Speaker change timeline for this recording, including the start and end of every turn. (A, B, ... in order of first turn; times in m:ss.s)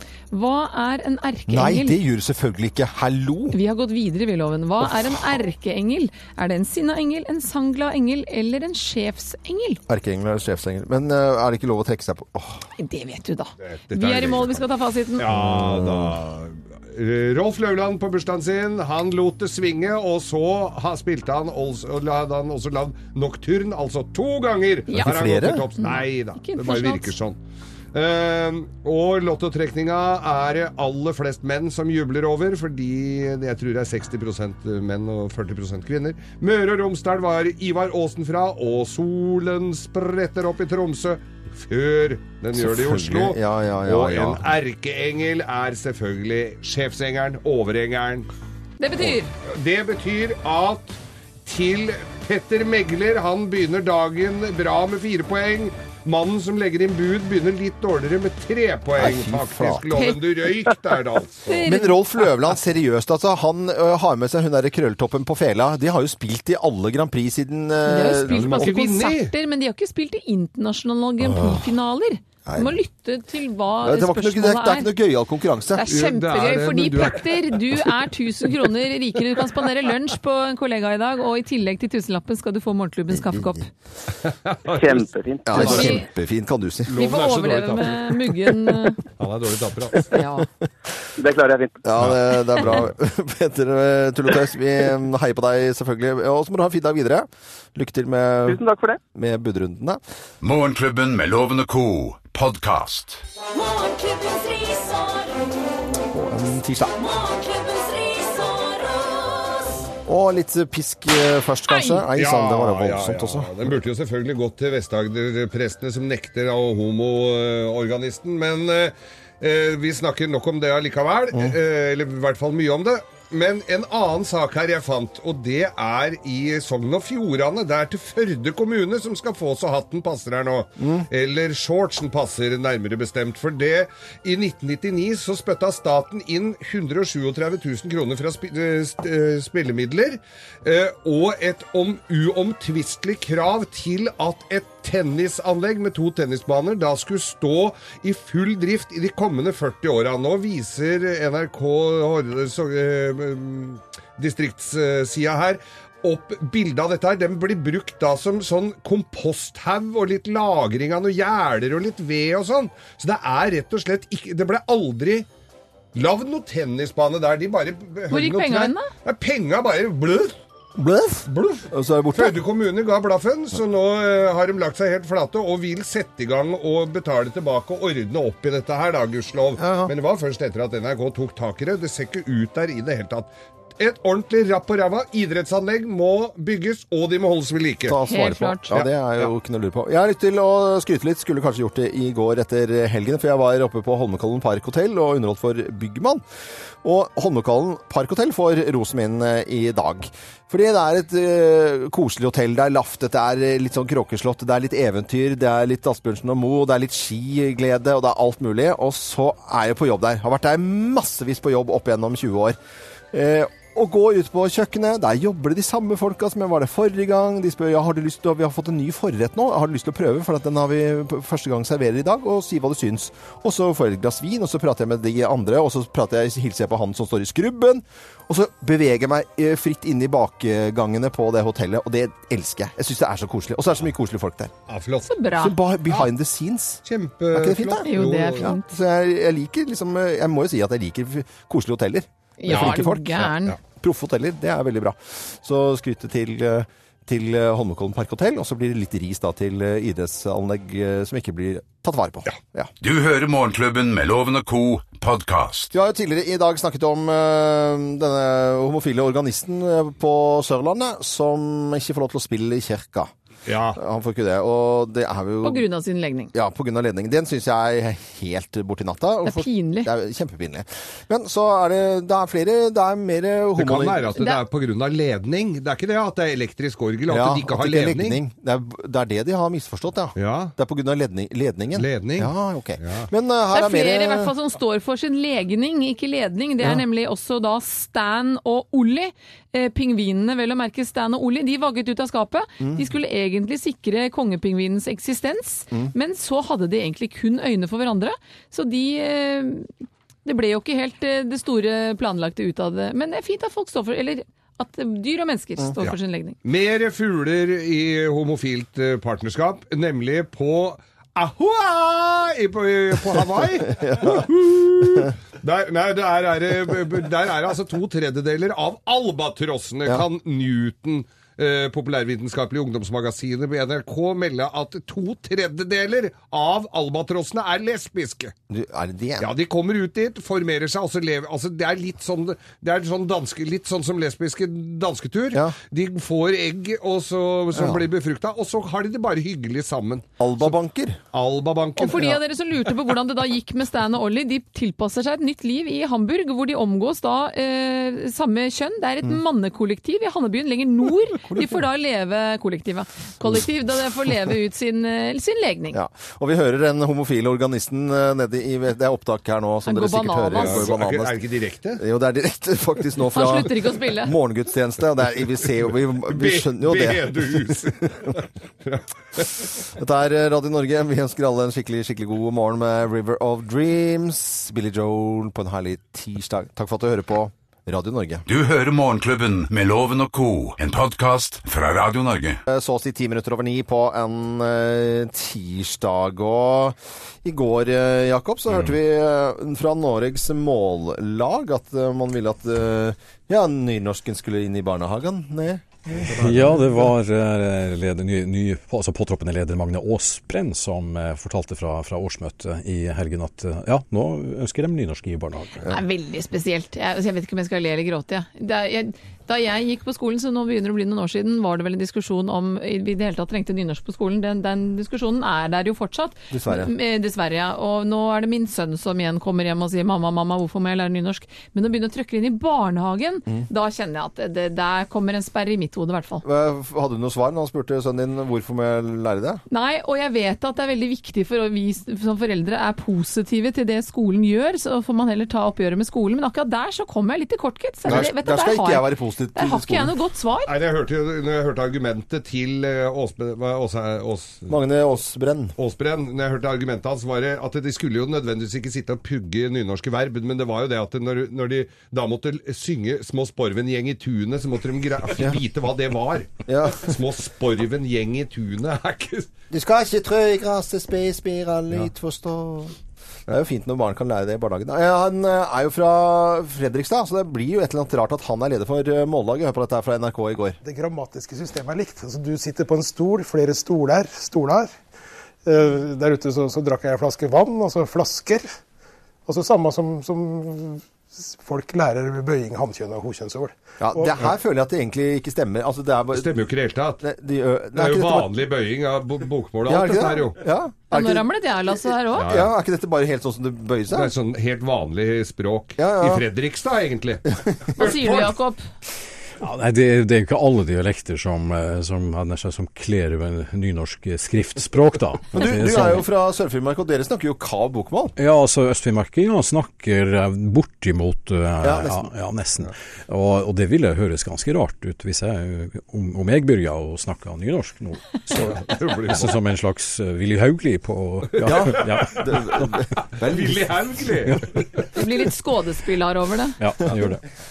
0:00.3-0:02.0 A
0:01.5-0:03.6 B
0:03.5-0:09.8 A
0:09.9-0:12.7 B
0:12.8-0:15.2 A
0:13.6-0:27.4 C
0:15.2-0:16.2 B
0:24.9-0:25.7 B
0:25.8-0:27.1 A
0:27.9-0:48.3 C
0:42.5-0:44.5 B
0:48.8-0:49.3 A
0:49.4-1:01.6 C
0:59.0-1:00.0 B
0:59.9-1:00.2 A
1:01.4-1:02.0 A
1:01.6-1:08.7 B
1:07.8-1:14.9 A
1:08.3-1:09.3 C
1:11.2-1:11.7 B
1:12.4-1:12.8 B
1:13.8-1:15.9 B
1:15.7-1:23.7 A
1:15.9-1:17.8 C
1:24.2-1:26.0 C
1:24.7-1:25.9 D
1:25.4-1:27.0 B
1:25.5-1:26.1 A
1:26.9-1:28.5 C
1:26.9-1:29.0 A
1:29.2-1:30.2 C
1:30.1-1:30.5 A
1:31.2-1:31.8 D
1:31.8-1:38.6 B
1:38.4-1:39.0 D
1:39.1-1:40.0 B
1:40.4-1:43.2 E
1:43.5-1:45.9 F
1:46.1-1:47.0 B
1:46.9-1:49.7 F
1:50.0-1:53.5 B
1:51.7-1:52.0 A
1:52.1-2:45.3 C
2:10.8-2:11.0 B
2:45.9-2:50.3 C
2:48.1-2:48.9 A
2:50.8-2:52.4 B
2:51.3-3:08.0 C
2:59.6-2:59.9 B
3:07.9-3:16.2 B
3:08.0-3:08.7 A
3:08.7-3:09.3 C
3:16.8-3:32.6 B
3:33.1-3:54.5 B
3:54.7-3:55.2 C
3:55.0-3:55.6 A
3:55.4-4:12.7 B
3:56.8-3:58.6 C
3:57.8-3:58.6 A
4:02.4-4:03.6 A
4:02.5-4:03.6 C
4:12.8-4:15.7 E
4:15.7-4:23.1 B
4:23.4-4:23.8 C
4:23.8-4:25.6 B
4:25.4-4:26.3 A
4:26.3-4:34.1 B
4:29.2-4:29.9 A
4:33.6-4:38.2 C
4:37.1-4:44.3 B
4:40.2-4:40.5 C
4:41.7-4:43.1 C
4:43.5-4:59.7 A
5:00.2-5:06.4 A
5:05.8-5:28.3 C
5:13.6-5:14.3 B
5:14.8-5:15.1 B
5:28.5-5:29.3 B
5:29.2-5:40.5 C
5:37.5-5:37.8 B
5:40.2-5:41.0 B
5:41.1-5:42.1 C
5:41.8-5:55.8 A
5:51.3-5:51.6 B
5:55.7-6:01.2 B
5:59.6-6:00.7 A
6:00.3-6:01.8 C
6:01.8-6:08.1 B
6:03.1-6:04.1 A
6:06.0-6:09.4 C
6:09.4-6:18.2 B
6:18.2-6:22.4 E
6:22.5-6:36.5 B
6:36.1-6:45.6 G
6:45.6-7:06.2 A
6:56.3-6:56.7 B
7:06.2-7:09.4 B
7:09.5-7:20.5 A
7:17.8-7:19.9 B
7:20.4-7:24.5 C
7:24.5-7:25.5 B
7:25.6-7:39.3 C
7:36.5-7:36.9 B
7:39.5-7:42.7 B
7:43.3-7:50.6 B
7:50.6-7:54.8 H
7:55.4-7:58.5 H
7:59.2-8:04.2 H
8:03.8-8:06.3 B
8:06.1-8:07.0 C
8:07.0-8:08.3 B
8:07.7-8:10.4 C
8:09.6-8:11.3 B
8:10.9-8:12.3 A
8:12.1-8:14.1 B
8:12.1-8:12.5 C
8:13.9-8:17.2 C
8:15.8-8:16.2 B
8:17.6-8:18.2 B
8:17.8-8:18.2 C
8:17.8-8:18.6 A
8:19.4-8:26.0 G
8:25.3-8:28.1 B
8:28.2-8:42.7 G
8:31.6-8:32.1 B
8:38.4-8:39.4 C
8:41.3-8:44.8 C
8:41.4-8:43.7 B
8:44.9-8:46.6 A
8:46.6-8:47.2 G